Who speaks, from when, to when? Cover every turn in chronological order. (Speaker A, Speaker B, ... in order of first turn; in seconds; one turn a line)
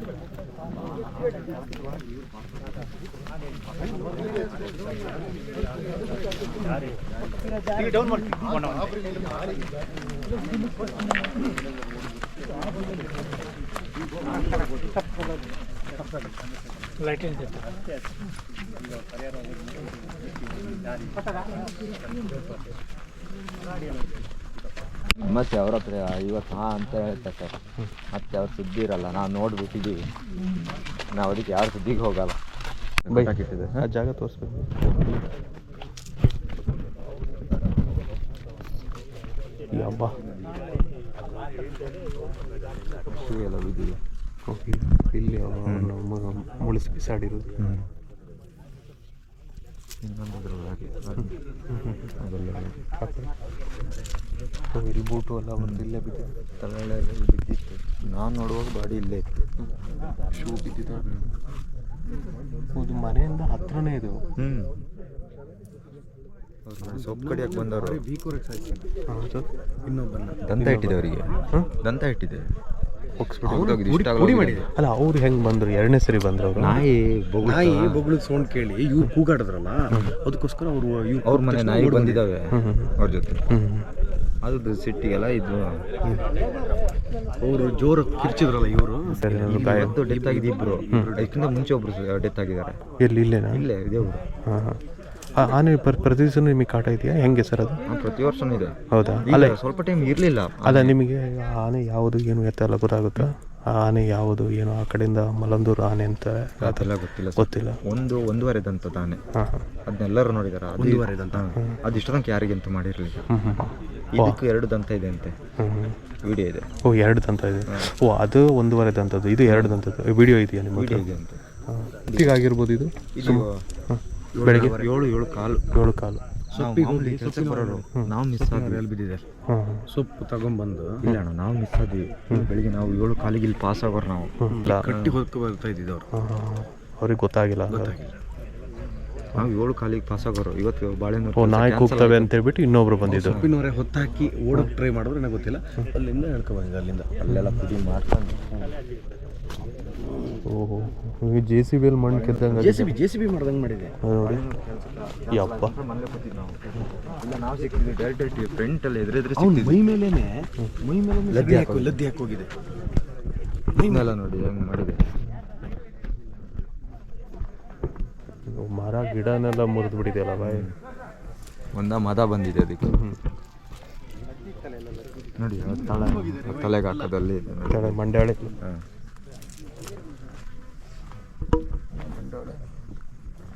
Speaker A: 1.3-2.2
Speaker A: 25.2-27.6
Speaker A: 28.1-30.1
Speaker A: 31.1-32.4
Speaker A: 33.1-33.8
Speaker B: 33.1-35.2
Speaker B: 39.7-40.2
Speaker A: 43.1-44.0
Speaker B: 44.5-47.5
Speaker A: 50.0-51.3
Speaker B: 51.2-52.0
Speaker A: 52.2-52.8
Speaker B: 53.0-53.3
Speaker B: 54.7-56.3
Speaker A: 55.6-55.9
Speaker A: 56.6-59.4
Speaker B: 60.3-61.1
Speaker B: 62.8-64.2
Speaker A: 64.4-64.7
Speaker A: 66.7-68.0
Speaker C: 66.8-68.9
Speaker B: 69.1-69.5
Speaker C: 69.8-70.4
Speaker A: 70.5-71.3
Speaker B: 70.6-71.0
Speaker A: 71.8-72.5
Speaker B: 73.2-73.8
Speaker A: 73.5-74.7
Speaker C: 73.6-74.7
Speaker B: 74.8-76.8
Speaker A: 76.6-78.0
Speaker C: 77.4-82.2
Speaker A: 81.2-83.4
Speaker B: 82.5-82.9
Speaker B: 83.5-83.9
Speaker A: 84.4-85.8
Speaker C: 87.4-91.5
Speaker B: 89.2-90.0
Speaker A: 89.2-92.8
Speaker B: 93.0-93.6
Speaker A: 93.5-94.2
Speaker B: 94.5-94.8
Speaker B: 95.4-97.8
Speaker A: 97.9-101.0
Speaker B: 98.9-99.6
Speaker B: 100.6-107.8
Speaker A: 106.6-109.2
Speaker B: 109.3-109.7
Speaker A: 109.9-113.3
Speaker C: 110.8-111.5
Speaker B: 113.3-114.4
Speaker A: 114.1-115.3
Speaker B: 115.6-116.0
Speaker A: 116.2-116.7
Speaker B: 116.8-121.0
Speaker A: 119.5-119.8
Speaker A: 120.8-121.4
Speaker B: 121.7-124.8
Speaker A: 122.1-122.4
Speaker A: 123.1-123.6
Speaker A: 124.4-125.7
Speaker B: 125.7-126.2
Speaker C: 126.5-129.2
Speaker A: 126.5-128.8
Speaker B: 129.5-129.8
Speaker C: 129.9-131.1
Speaker A: 131.0-134.3
Speaker B: 134.4-134.9
Speaker C: 134.5-136.1
Speaker A: 134.9-135.2
Speaker B: 136.1-138.0
Speaker C: 137.7-138.1
Speaker A: 139.3-142.3
Speaker B: 141.4-143.4
Speaker C: 143.1-147.1
Speaker A: 143.1-143.5
Speaker A: 147.2-148.4
Speaker B: 147.3-147.6
Speaker B: 150.5-152.9
Speaker A: 152.1-152.6
Speaker C: 152.5-153.9
Speaker B: 154.0-154.4
Speaker A: 154.2-159.8
Speaker B: 155.3-155.7
Speaker C: 159.3-162.5
Speaker A: 161.3-162.0
Speaker C: 163.8-164.1
Speaker A: 163.8-165.1
Speaker B: 168.5-170.7
Speaker A: 170.4-170.7
Speaker A: 171.7-173.0
Speaker B: 172.8-173.2
Speaker A: 175.4-178.0
Speaker B: 175.8-176.4
Speaker C: 176.2-176.6
Speaker B: 177.7-178.6
Speaker A: 182.1-182.6